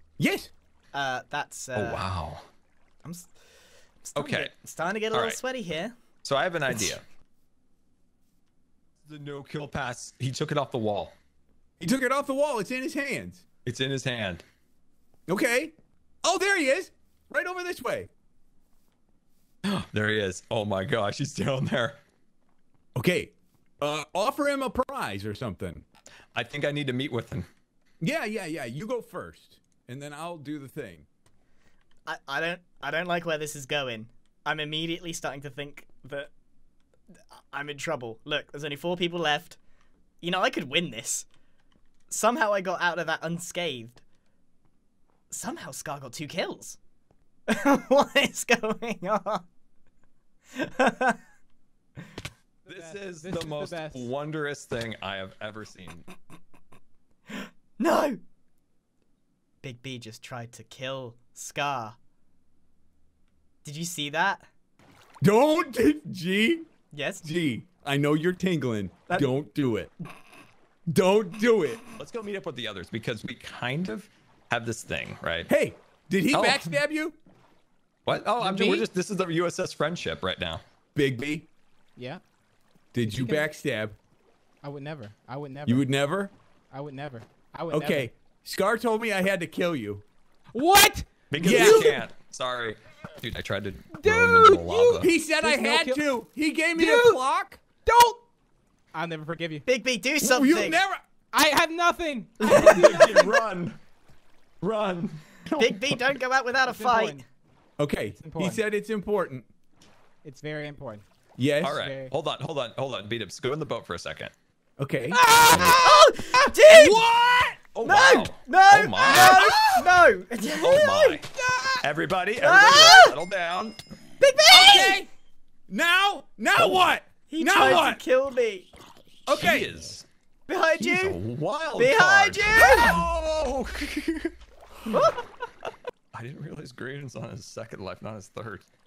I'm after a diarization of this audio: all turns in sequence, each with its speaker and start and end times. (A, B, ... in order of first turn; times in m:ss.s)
0:00.2-0:00.5 A
0:00.9-0:02.0 B
0:01.8-0:02.4 C
0:03.0-0:03.3 B
0:04.0-0:06.0 B
0:04.2-0:04.5 C
0:05.1-0:05.4 C
0:06.2-0:07.0 C
0:09.1-0:11.1 C
0:11.8-0:13.4 A
0:13.7-0:14.4 C
0:15.3-0:18.1 A
0:19.7-0:22.0 C
0:23.0-0:25.8 A
0:26.4-0:27.5 C
0:28.0-0:31.1 A
0:32.1-0:36.3 B
0:37.5-0:39.6 B
0:40.2-0:41.3 B
0:42.1-0:44.0 B
0:45.3-0:46.8 B
0:47.5-0:49.4 B
0:50.5-0:51.2 B
0:52.6-0:54.1 D
0:52.7-0:56.1 C
0:57.8-0:58.2 B
0:59.6-1:02.0 B
1:03.6-1:04.5 B
1:05.2-1:06.7 A
1:06.9-1:07.3 B
1:07.2-1:09.9 A
1:10.9-1:11.8 A
1:12.0-1:15.5 C
1:15.5-1:17.2 A
1:16.3-1:16.7 C
1:18.1-1:20.6 C
1:18.4-1:18.9 A
1:21.0-1:21.5 A
1:22.0-1:22.2 D
1:22.9-1:24.0 A
1:23.0-1:23.5 D
1:24.6-1:25.9 D
1:25.7-1:26.3 A
1:26.7-1:28.1 D
1:27.7-1:30.0 A
1:30.5-1:32.0 D
1:31.3-1:35.1 C
1:31.3-1:32.0 A
1:34.0-1:36.1 D
1:35.0-1:37.6 A
1:36.7-1:37.3 D
1:37.8-1:38.2 D
1:38.9-1:39.7 D
1:39.6-1:40.8 B
1:40.2-1:41.0 A
1:41.3-1:43.4 D
1:42.4-1:43.3 B
1:42.4-1:43.8 C
1:44.6-1:45.4 C
1:45.6-1:47.2 B
1:46.7-1:47.2 D
1:47.8-1:49.5 A
1:48.1-1:48.6 D
1:50.2-1:51.0 D
1:51.4-1:51.8 A
1:51.6-1:54.3 C
1:51.7-1:52.1 D
1:54.8-1:57.7 A
1:55.1-1:55.5 D
1:55.4-1:57.0 B
1:57.7-1:59.7 C
1:57.8-2:01.2 B
1:59.0-2:00.0 A
2:00.6-2:01.3 C
2:01.5-2:01.8 A
2:01.8-2:03.8 C
2:02.4-2:03.2 B
2:04.2-2:05.0 B
2:04.5-2:05.1 A
2:05.7-2:08.0 A
2:06.6-2:06.8 C
2:07.3-2:08.7 B
2:09.3-2:09.8 A
2:09.3-2:10.1 C
2:10.5-2:11.2 B
2:10.8-2:14.3 C
2:11.8-2:13.0 B
2:12.6-2:13.0 A
2:14.9-2:15.2 B
2:16.1-2:18.7 C